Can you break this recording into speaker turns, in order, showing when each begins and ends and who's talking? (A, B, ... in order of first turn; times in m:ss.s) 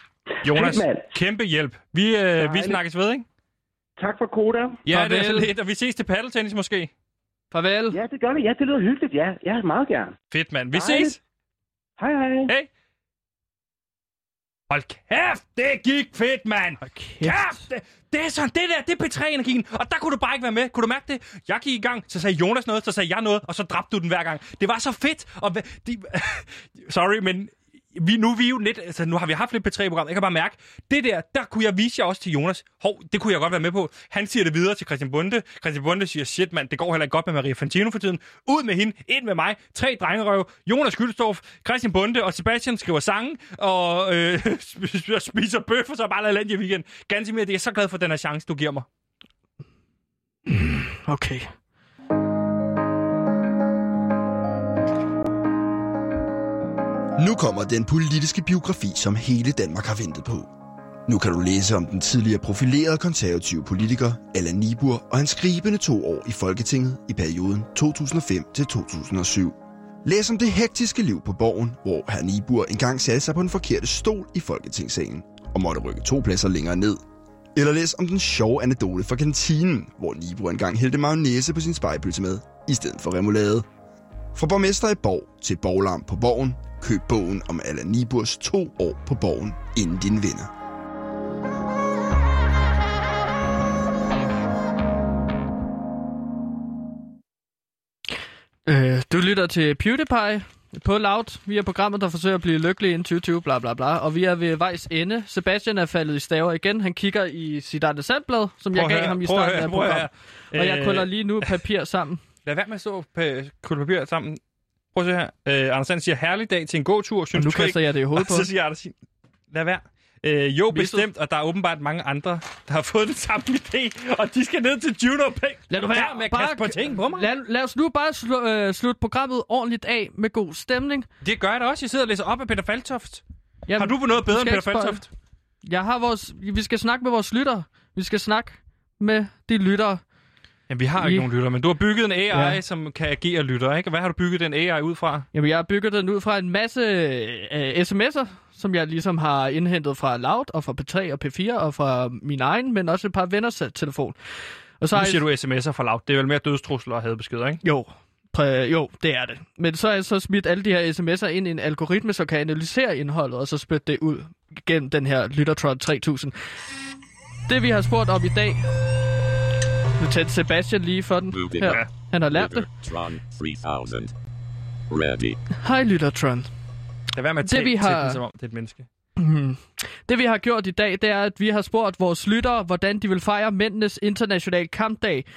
0:00.4-0:01.1 A
0:00.4-0:03.2 B
0:02.4-0:02.8 A
0:04.0-0:04.8 A
0:04.9-0:06.9 B
0:04.9-0:05.5 C
0:07.5-0:08.0 C
0:07.9-0:10.2 A
0:10.3-0:11.2 B
0:10.7-0:11.2 A
0:12.0-0:12.5 A
0:14.7-0:48.8 B
0:16.8-0:17.6 C
0:50.5-0:51.5 C
0:57.2-1:00.5 D
1:01.1-1:17.0 D
1:17.5-1:23.6 D
1:24.3-1:30.5 D
1:38.7-1:52.2 C
1:48.7-1:51.1 B
1:52.4-1:54.4 B
1:54.9-1:58.9 B
1:57.3-1:58.5 C
1:59.5-2:07.3 B
2:00.7-2:01.0 C
2:05.7-2:11.1 C
2:11.2-2:13.2 B
2:13.7-2:15.0 C
2:13.8-2:15.1 B
2:15.6-2:20.0 C
2:20.7-2:25.3 B
2:21.0-2:21.3 C
2:22.3-2:22.6 C
2:25.3-2:34.1 C
2:34.8-2:35.2 C
2:34.9-2:37.6 B
2:37.6-2:46.3 C
2:47.5-2:48.6 C
2:50.0-2:52.7 C
2:51.3-2:54.1 E
2:51.6-2:51.9 B
2:54.9-2:55.4 E
2:55.6-2:56.5 C
2:57.1-2:58.8 B
2:57.4-2:58.2 C
2:59.2-3:05.2 C